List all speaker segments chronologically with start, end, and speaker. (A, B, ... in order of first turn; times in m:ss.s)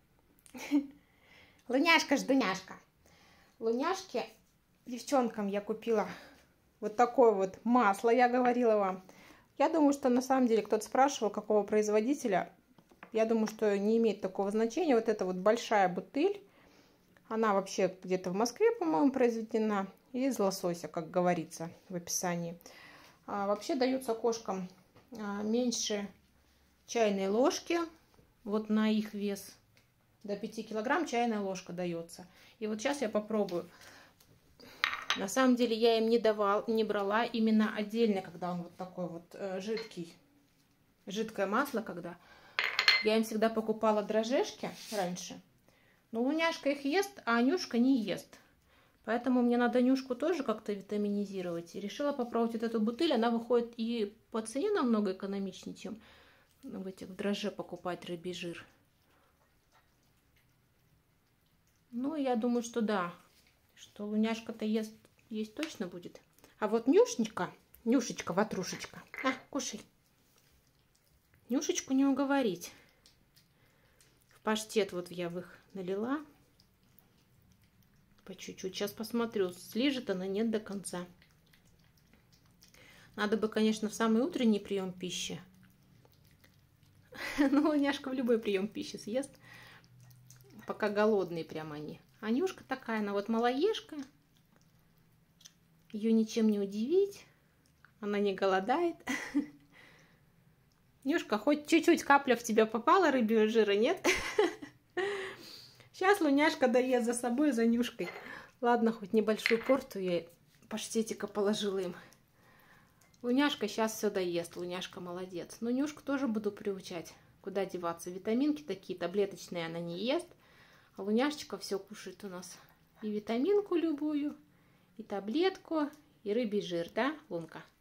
0:00.6-0:00.8 A
0:01.7-0:02.8 A
0:03.6-0:04.2 A
0:04.8-0:06.1 A
0:06.8-0:09.0 A
0:09.6-0:12.5 A
0:13.1-0:16.4 A
0:17.3-0:22.6 A
0:23.3-0:26.1 A
0:26.9-0:27.8 A
0:28.4-0:29.6 A
0:30.2-0:33.7 A
0:35.1-0:40.1 A
0:41.0-0:42.2 A
0:43.0-0:45.4 A
0:46.1-0:48.4 A
0:49.0-0:56.0 A
0:56.6-0:58.6 A
1:01.9-1:03.2 A
1:03.7-1:09.8 A
1:11.5-1:12.7 A
1:14.3-1:16.2 A
1:18.2-1:21.1 A
1:23.1-1:25.4 A
1:27.2-1:29.4 A
1:30.6-1:34.0 A
1:35.9-1:37.2 A
1:38.0-1:39.4 A
1:41.0-1:45.3 A
1:45.9-1:52.0 A
1:53.2-2:00.3 A
2:01.0-2:04.4 A
2:05.0-2:07.6 A